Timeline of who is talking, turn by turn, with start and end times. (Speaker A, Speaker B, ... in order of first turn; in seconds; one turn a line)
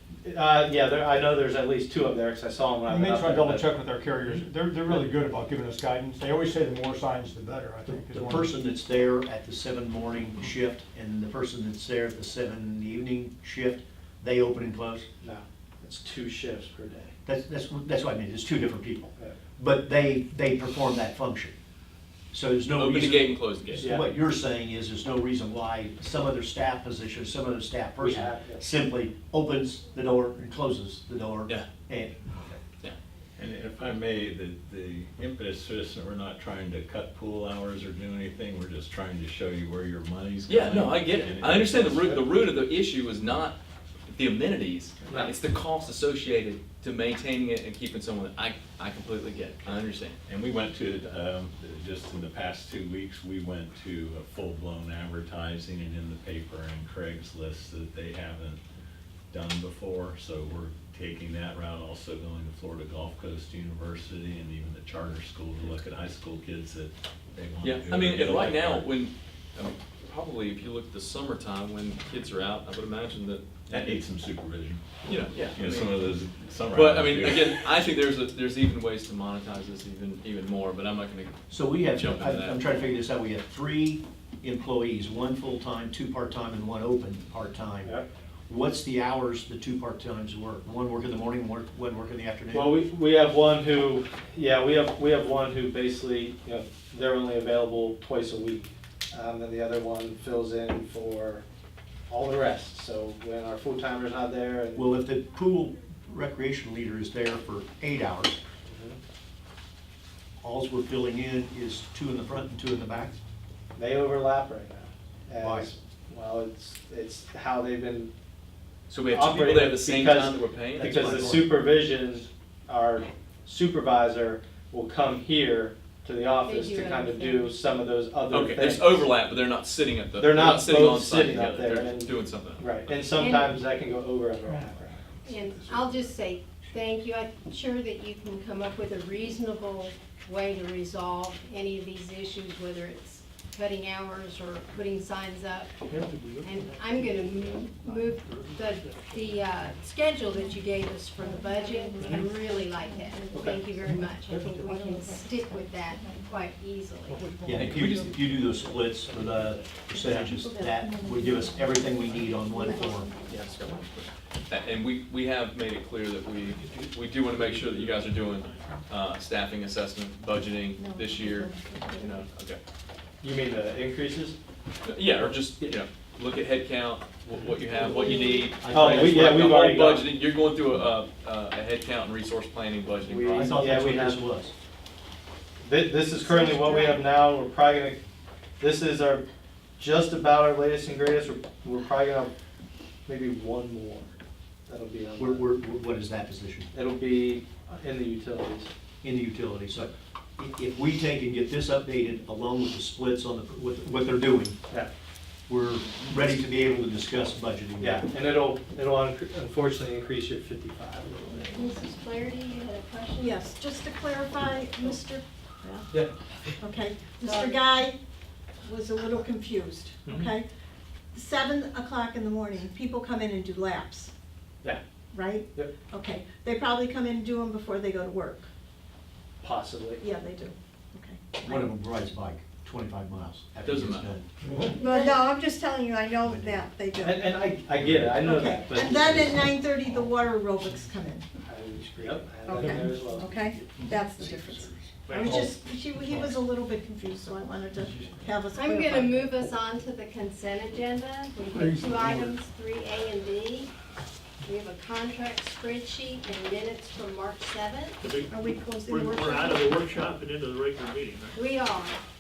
Speaker A: 0.2-3.7
Speaker B: 2.9-8.5
Speaker A: 4.2-5.0
Speaker C: 7.9-15.1
Speaker A: 15.2-17.1
Speaker C: 17.2-21.5
Speaker C: 22.3-32.6
Speaker D: 22.7-23.9
Speaker A: 23.8-24.1
Speaker A: 28.0-28.7
Speaker E: 33.4-42.0
Speaker D: 40.5-43.6
Speaker A: 41.8-42.2
Speaker D: 44.1-50.2
Speaker A: 45.0-45.3
Speaker E: 50.3-58.6
Speaker E: 59.3-68.9
Speaker D: 67.6-74.0
Speaker E: 73.7-77.7
Speaker D: 75.0-76.1
Speaker D: 76.7-82.9
Speaker C: 81.5-88.0
Speaker C: 88.5-92.8
Speaker A: 92.5-101.4
Speaker A: 102.1-104.9
Speaker C: 104.7-108.4
Speaker A: 108.7-109.0
Speaker C: 110.4-113.2
Speaker A: 113.8-118.1
Speaker C: 115.4-115.7
Speaker D: 118.9-121.4
Speaker A: 119.1-129.1
Speaker C: 120.7-121.6
Speaker F: 126.4-127.6
Speaker D: 128.3-133.0
Speaker A: 130.2-135.0
Speaker F: 133.2-133.6
Speaker F: 135.2-145.8
Speaker G: 145.9-149.9
Speaker F: 146.4-157.3
Speaker H: 151.2-153.6
Speaker A: 153.3-153.6
Speaker H: 154.5-156.3
Speaker G: 157.3-158.3
Speaker C: 157.4-163.1
Speaker D: 157.5-158.1
Speaker A: 160.0-160.3
Speaker H: 160.3-163.3
Speaker D: 163.2-172.6
Speaker G: 166.4-168.8
Speaker H: 170.8-172.2
Speaker A: 173.2-174.4
Speaker D: 174.8-183.5
Speaker A: 175.2-175.8
Speaker C: 177.8-179.6
Speaker A: 177.9-180.1
Speaker A: 183.0-184.3
Speaker C: 183.3-184.5
Speaker A: 185.6-188.0
Speaker H: 186.3-187.0
Speaker A: 188.6-189.2
Speaker A: 189.8-192.3
Speaker A: 193.1-194.1
Speaker A: 194.7-195.4
Speaker C: 195.2-196.7
Speaker A: 196.7-198.7
Speaker C: 199.0-204.6
Speaker C: 205.5-208.1
Speaker A: 207.8-211.7
Speaker F: 211.5-213.4
Speaker H: 213.2-215.9
Speaker H: 216.6-218.0
Speaker F: 217.2-217.7
Speaker H: 218.6-220.5
Speaker A: 220.1-220.3
Speaker H: 221.1-224.1
Speaker H: 225.1-228.5
Speaker A: 229.4-230.0
Speaker H: 230.0-231.7
Speaker C: 231.4-234.2
Speaker D: 233.6-234.1
Speaker B: 234.5-234.7
Speaker H: 234.8-237.5
Speaker C: 236.2-236.6
Speaker A: 237.0-239.5
Speaker H: 238.2-241.2
Speaker A: 241.4-243.7
Speaker H: 242.4-249.5
Speaker G: 245.1-245.5
Speaker F: 248.5-253.7
Speaker B: 251.5-252.3
Speaker F: 254.4-258.1
Speaker G: 258.0-261.4
Speaker H: 258.3-259.7
Speaker F: 261.3-262.0